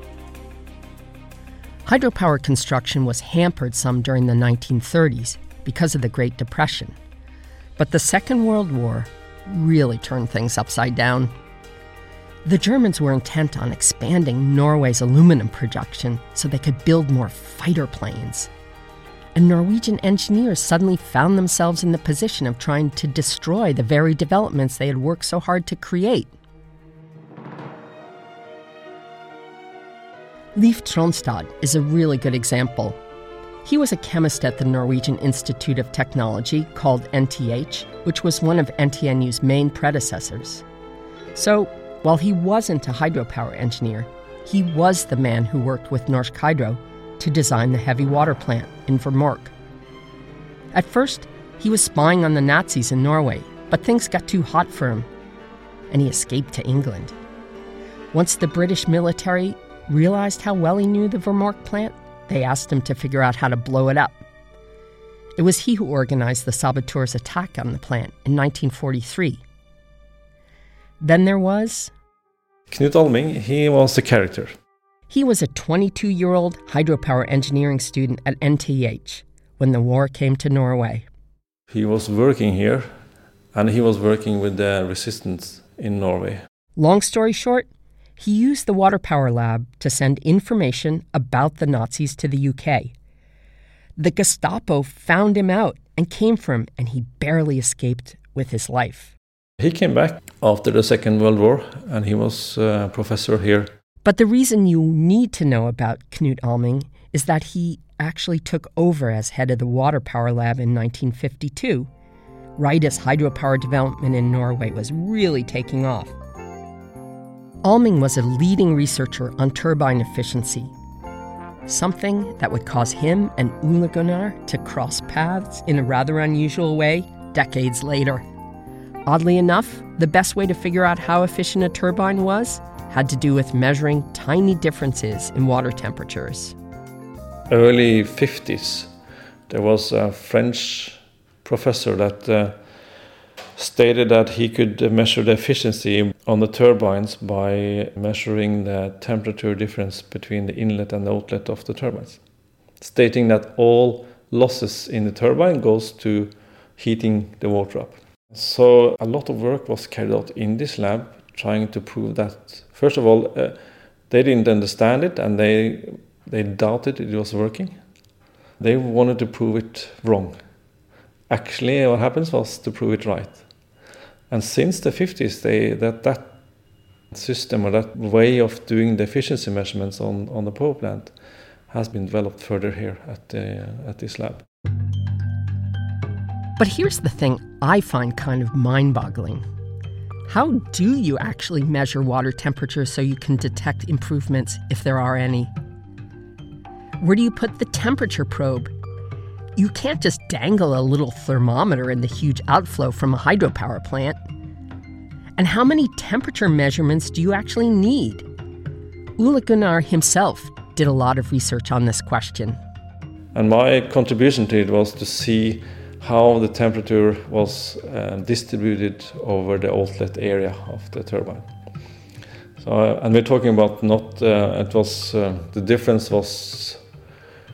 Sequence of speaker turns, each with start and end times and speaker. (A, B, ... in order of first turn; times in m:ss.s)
0:01.8-0:06.9 A
0:07.8-0:11.3 A
0:12.4-0:18.5 A
0:19.4-0:26.3 A
0:30.6-0:33.0 A
0:33.6-0:40.6 A
0:41.3-0:49.5 A
0:50.7-0:55.1 A
0:55.9-0:57.1 A
0:58.1-1:04.2 A
1:05.4-1:09.4 A
1:11.0-1:11.9 A
1:12.7-1:14.5 B
1:15.1-1:21.0 A
1:21.7-1:22.9 B
1:23.5-1:26.4 B
1:26.8-1:32.9 A
1:34.0-1:39.1 A
1:39.6-1:43.7 B
1:44.0-1:51.9 A
1:52.6-1:56.1 A
1:57.6-2:00.7 A
2:01.7-2:08.2 A
2:09.1-2:16.6 A
2:17.5-2:18.9 B
2:19.5-2:22.6 B
2:23.6-2:32.2 B
2:32.8-2:43.6 B
2:44.1-2:47.8 B
2:48.6-2:50.4 B
2:51.3-2:53.4 B
2:54.3-2:56.3 B
2:57.1-3:01.1 B
3:01.7-3:04.4 B
3:06.6-3:09.4 A
3:10.3-3:15.5 A
3:17.0-3:18.7 A
3:19.6-3:24.2 A
3:25.4-3:28.2 A
3:29.2-3:32.6 A
3:33.3-3:41.5 B
3:42.6-3:46.8 B